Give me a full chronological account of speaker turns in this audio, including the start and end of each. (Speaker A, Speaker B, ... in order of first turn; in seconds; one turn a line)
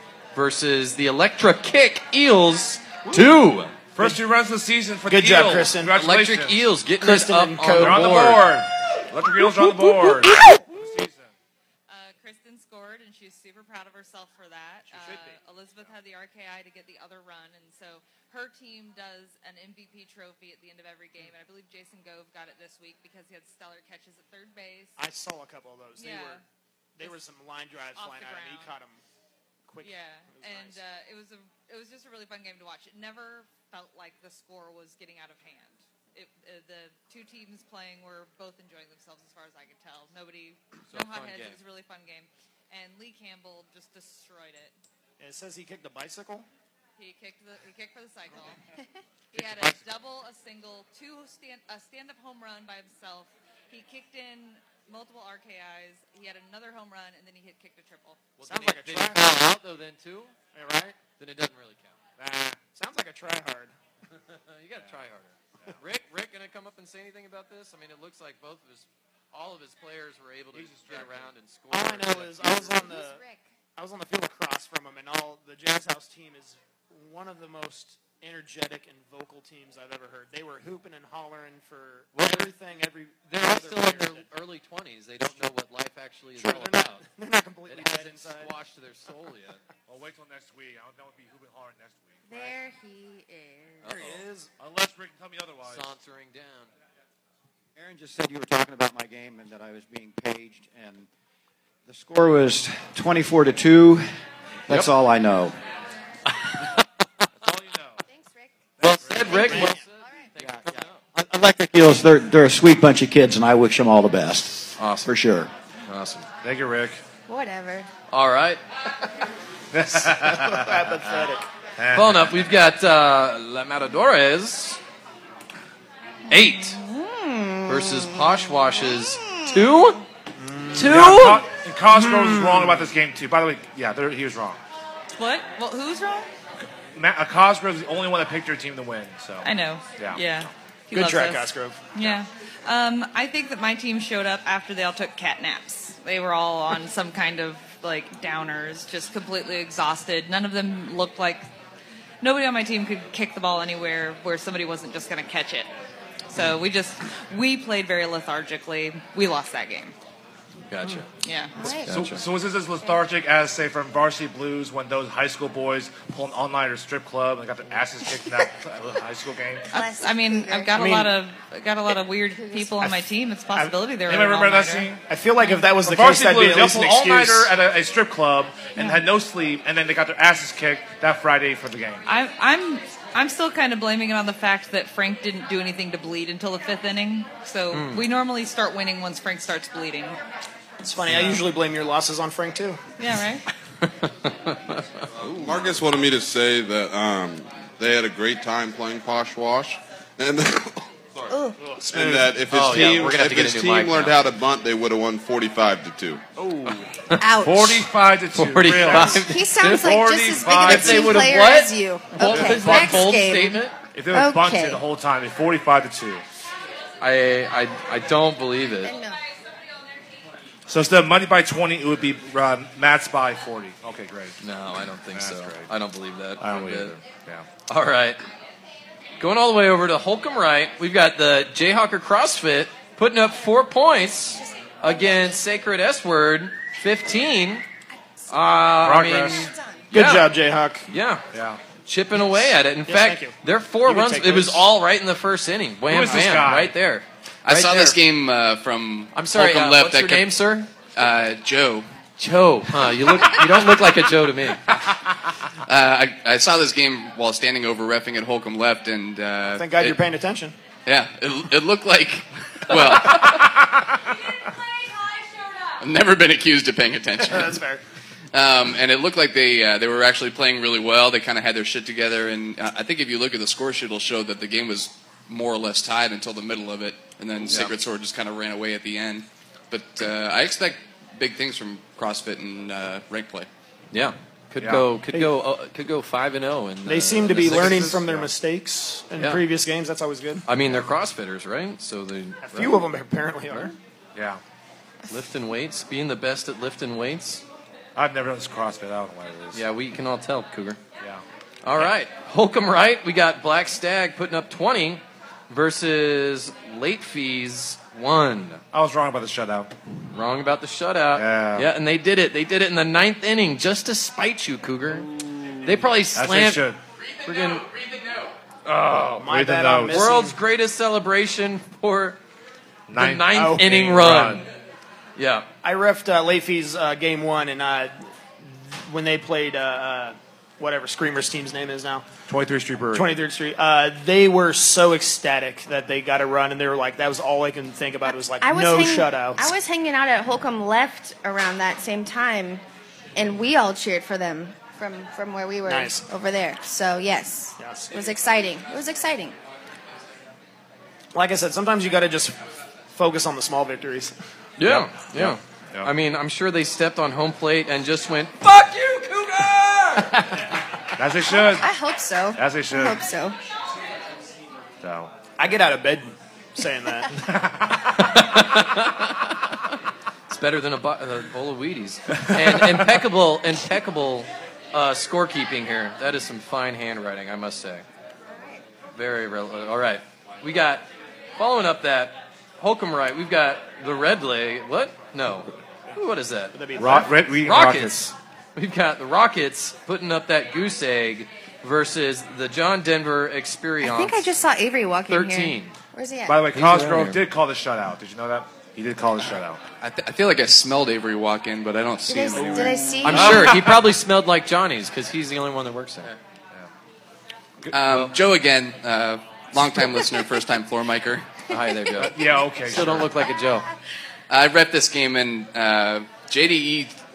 Speaker A: 0.3-3.7
Speaker B: 3.9-6.7
Speaker C: 5.1-5.9
Speaker A: 5.9-8.5
Speaker C: 7.0-8.2
Speaker B: 7.7-11.3
Speaker D: 11.9-25.0
Speaker C: 14.9-15.4
Speaker C: 25.0-26.4
Speaker D: 25.9-26.4
Speaker C: 26.9-29.0
Speaker D: 27.9-28.7
Speaker C: 29.7-30.8
Speaker D: 29.8-44.8
Speaker A: 40.9-41.6
Speaker C: 45.2-46.5
Speaker D: 47.0-48.6
Speaker D: 49.3-58.3
Speaker B: 49.3-49.8
Speaker A: 58.4-60.4
Speaker C: 58.4-59.4
Speaker C: 60.5-61.0
Speaker A: 61.2-62.0
Speaker B: 62.2-62.6
Speaker C: 62.7-63.7
Speaker A: 64.2-72.8
Speaker B: 70.5-71.3
Speaker C: 71.7-73.2
Speaker E: 72.7-73.4
Speaker C: 73.8-84.3
Speaker A: 82.1-82.5
Speaker A: 83.3-87.0
Speaker C: 86.4-88.5
Speaker A: 87.7-89.6
Speaker B: 89.9-92.5
Speaker E: 92.2-94.0
Speaker A: 93.8-94.2
Speaker C: 94.0-94.5
Speaker B: 94.0-95.9
Speaker A: 95.6-96.7
Speaker F: 97.7-101.1
Speaker F: 101.8-104.1
Speaker F: 104.7-105.5
Speaker B: 107.4-108.0
Speaker E: 108.0-108.7
Speaker A: 108.8-111.0
Speaker B: 108.8-109.6
Speaker E: 109.2-110.3
Speaker C: 109.5-109.7
Speaker F: 110.4-115.5
Speaker A: 114.8-115.1
Speaker A: 115.9-116.3
Speaker B: 116.4-117.0
Speaker E: 117.3-117.9
Speaker A: 118.1-118.6
Speaker B: 119.7-120.8
Speaker C: 120.0-121.5
Speaker B: 121.8-122.3
Speaker A: 121.9-124.8
Speaker A: 126.3-126.8
Speaker E: 126.3-129.9
Speaker A: 127.7-130.0
Speaker C: 130.4-131.1
Speaker A: 130.7-131.4
Speaker B: 130.8-134.6
Speaker C: 131.9-132.9
Speaker D: 135.1-136.3
Speaker B: 136.9-140.4
Speaker D: 139.4-151.4
Speaker C: 140.9-141.9
Speaker D: 152.2-155.7
Speaker D: 156.3-159.9
Speaker A: 160.7-161.1
Speaker D: 161.2-161.5
Speaker E: 161.6-161.9
Speaker A: 161.6-162.2
Speaker B: 161.8-169.7
Speaker E: 169.7-171.0
Speaker D: 169.7-175.6
Speaker C: 170.8-171.1
Speaker B: 174.1-175.0
Speaker C: 175.1-177.5
Speaker B: 175.8-182.0
Speaker D: 178.8-179.0
Speaker D: 182.1-190.2
Speaker A: 187.7-188.0
Speaker C: 190.8-192.8
Speaker D: 193.0-193.4
Speaker A: 193.8-195.7
Speaker G: 195.3-206.2
Speaker E: 201.3-201.6
Speaker C: 201.8-202.3
Speaker A: 202.5-204.2
Speaker B: 206.5-206.8
Speaker E: 207.2-207.9
Speaker B: 207.4-211.3
Speaker A: 208.3-210.0
Speaker E: 208.9-214.8
Speaker A: 210.6-213.7
Speaker B: 212.3-212.8
Speaker B: 213.9-216.2
Speaker A: 217.0-218.9
Speaker E: 218.8-219.2
Speaker B: 220.7-224.3
Speaker A: 224.4-227.0
Speaker B: 225.1-225.7
Speaker B: 226.4-227.4
Speaker A: 227.7-228.2
Speaker A: 229.2-237.6
Speaker E: 234.3-235.4
Speaker A: 238.3-240.3
Speaker B: 238.8-239.5
Speaker E: 239.3-239.8
Speaker C: 239.9-240.8
Speaker A: 240.9-241.2
Speaker B: 241.3-241.6
Speaker A: 241.8-248.0
Speaker C: 242.8-244.7
Speaker B: 245.9-246.8
Speaker H: 247.4-250.3
Speaker A: 249.1-250.7
Speaker H: 250.9-251.9
Speaker A: 252.2-254.7
Speaker H: 255.7-260.0
Speaker C: 259.6-260.5
Speaker H: 260.9-263.6
Speaker H: 265.8-267.6
Speaker C: 267.2-267.8
Speaker H: 268.3-283.5
Speaker A: 283.9-288.0
Speaker B: 284.6-284.9
Speaker C: 286.8-290.4
Speaker B: 287.4-288.3
Speaker A: 290.4-292.8
Speaker C: 292.4-293.7
Speaker B: 294.1-294.4
Speaker A: 295.1-297.4
Speaker B: 297.9-299.6
Speaker A: 299.5-300.8
Speaker A: 301.6-308.6
Speaker B: 308.7-309.7
Speaker A: 310.1-315.1
Speaker B: 311.1-311.7
Speaker A: 315.6-316.7
Speaker B: 316.1-316.8
Speaker A: 317.2-317.6
Speaker B: 318.7-320.1
Speaker C: 319.2-320.4
Speaker A: 319.9-322.2
Speaker B: 322.9-324.4
Speaker A: 322.9-324.5
Speaker C: 323.3-323.8
Speaker A: 325.1-325.5
Speaker C: 325.6-327.9
Speaker C: 328.5-332.1
Speaker B: 332.3-333.2
Speaker C: 332.9-339.5
Speaker E: 338.1-342.6
Speaker E: 343.1-349.4
Speaker C: 345.6-346.0
Speaker C: 347.6-347.9
Speaker C: 351.1-352.4
Speaker C: 352.9-354.1
Speaker A: 354.6-360.1
Speaker B: 354.6-355.9
Speaker B: 361.0-361.7
Speaker E: 361.2-363.4
Speaker B: 362.4-363.0
Speaker B: 364.8-365.1
Speaker C: 365.4-367.1
Speaker B: 367.3-367.8
Speaker A: 367.9-369.3
Speaker A: 370.3-377.8
Speaker E: 378.3-378.6
Speaker A: 378.9-380.9
Speaker A: 381.4-386.6
Speaker C: 386.5-387.2
Speaker B: 386.8-388.1
Speaker A: 387.4-394.3
Speaker E: 393.8-396.5
Speaker A: 395.1-395.7
Speaker B: 396.3-399.6
Speaker A: 396.5-397.2
Speaker H: 399.8-403.0
Speaker E: 402.1-403.6
Speaker B: 402.6-403.8
Speaker A: 403.0-406.1
Speaker B: 407.6-408.1
Speaker H: 407.7-411.2
Speaker A: 411.5-413.6
Speaker B: 411.9-413.1
Speaker H: 414.3-417.0